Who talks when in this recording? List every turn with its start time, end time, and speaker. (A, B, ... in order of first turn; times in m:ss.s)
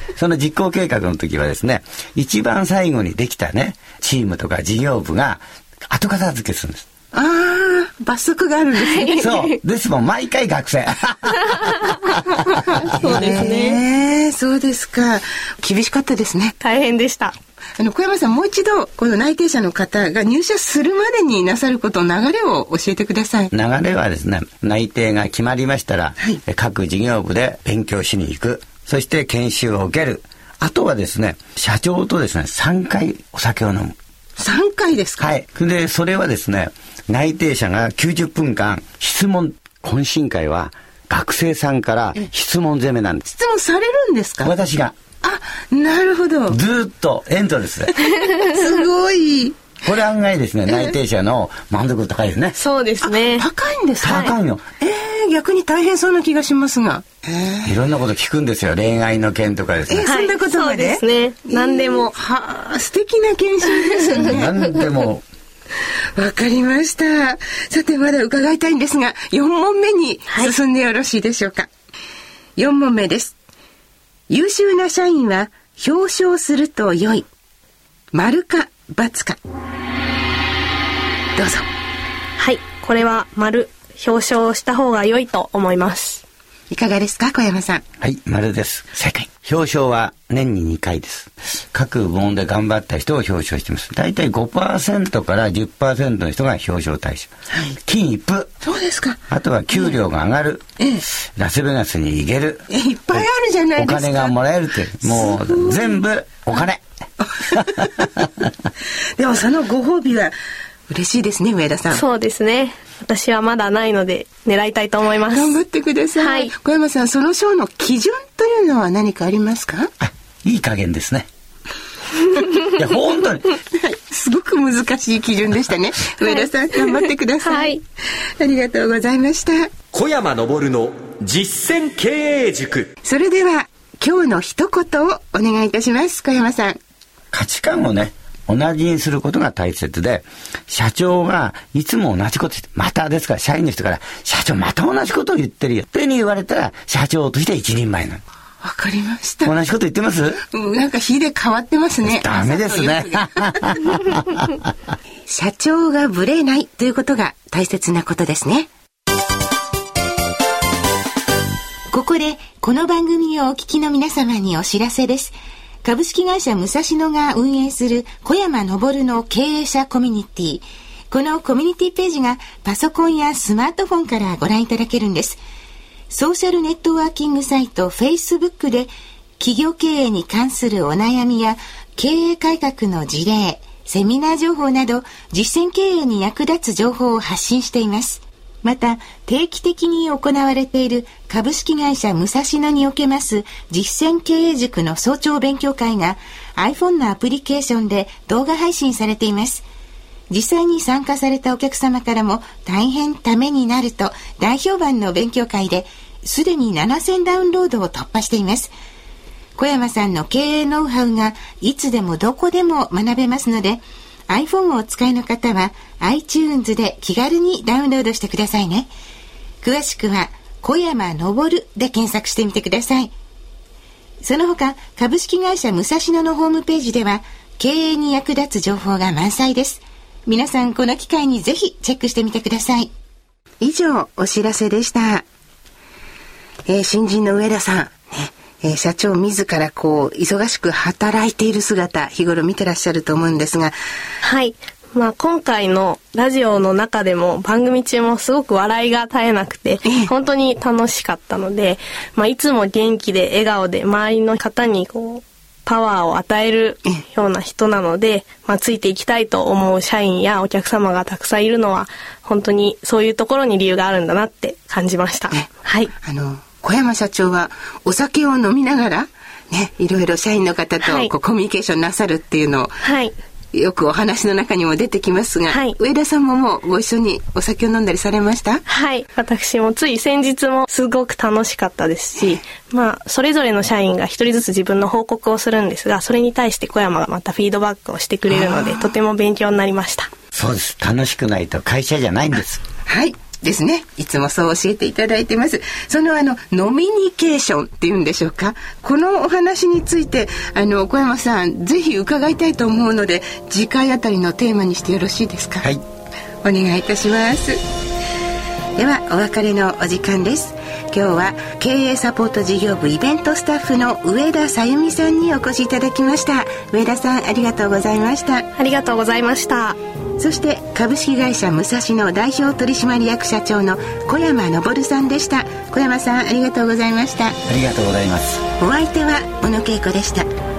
0:00.2-0:06.9 A
0:07.1-0:09.3 B
0:08.8-0:09.6 C
0:09.2-0:12.1 A
0:12.7-0:13.8 C
0:12.9-0:16.6 B
0:16.6-0:17.4 C
0:17.8-0:23.5 B
0:23.5-0:34.0 A
0:34.4-0:35.3 B
0:35.2-0:43.2 A
0:43.3-0:44.5 B
0:44.4-0:45.0 A
0:45.2-0:46.6 B
0:46.5-0:47.9 A
0:48.0-0:49.6 B
0:49.8-0:52.6 A
0:50.7-0:50.9 B
0:52.6-0:53.5 C
0:53.0-0:57.8 B
0:54.0-0:54.6 A
0:57.6-1:00.1 A
0:59.9-1:04.5 B
1:00.0-1:02.1 C
1:04.2-1:05.2 A
1:06.2-1:11.7 B
1:12.6-1:13.4 B
1:14.3-1:17.3 B
1:18.1-1:19.4 B
1:21.4-1:21.7 B
1:22.4-1:26.2 C
1:26.7-1:27.8 B
1:28.0-1:37.3 A
1:37.5-1:37.8 B
1:37.8-1:38.5 A
1:38.6-1:39.2 B
1:39.3-1:40.6 A
1:40.8-1:41.0 B
1:41.4-1:42.6 A
1:42.7-1:44.4 B
1:43.8-1:46.8 A
1:45.0-1:46.0 B
1:47.2-1:48.1 B
1:49.2-1:50.3 B
1:50.9-1:52.0 B
1:51.9-1:55.6 C
1:55.3-1:59.9 B
1:56.2-1:56.5 C
2:00.0-2:01.3 A
2:02.7-2:03.5 A
2:03.7-2:07.8 B
2:06.2-2:07.8 C
2:08.4-2:09.7 B
2:09.9-2:12.9 D
2:13.0-2:16.8 B
2:17.3-2:28.2 A
2:28.6-2:29.5 B
2:29.4-2:30.4 A
2:30.5-2:33.8 B
2:32.1-2:34.5 A
2:35.3-2:38.7 B
2:41.9-2:55.4 B
2:56.1-3:19.7 B
3:20.3-3:28.7 B
3:29.6-3:38.9 B
3:39.6-3:43.1 B
3:44.2-3:52.9 B
3:53.6-3:55.3 B
3:56.7-4:03.8 B
4:04.2-4:25.9 C
4:09.8-4:10.1 B
4:26.0-4:32.8 B
4:30.8-4:31.1 C
4:32.8-4:33.2 C
4:33.5-4:38.6 B
4:35.5-4:35.8 C
4:38.7-4:50.1 C
4:48.3-4:49.0 B
4:50.3-4:52.6 A
4:52.9-5:05.7 B
5:06.4-5:07.6 B
5:08.8-5:18.5 B
5:18.6-5:19.8 C
5:20.2-5:27.4 B
5:27.5-5:28.4 A
5:28.6-5:30.3 B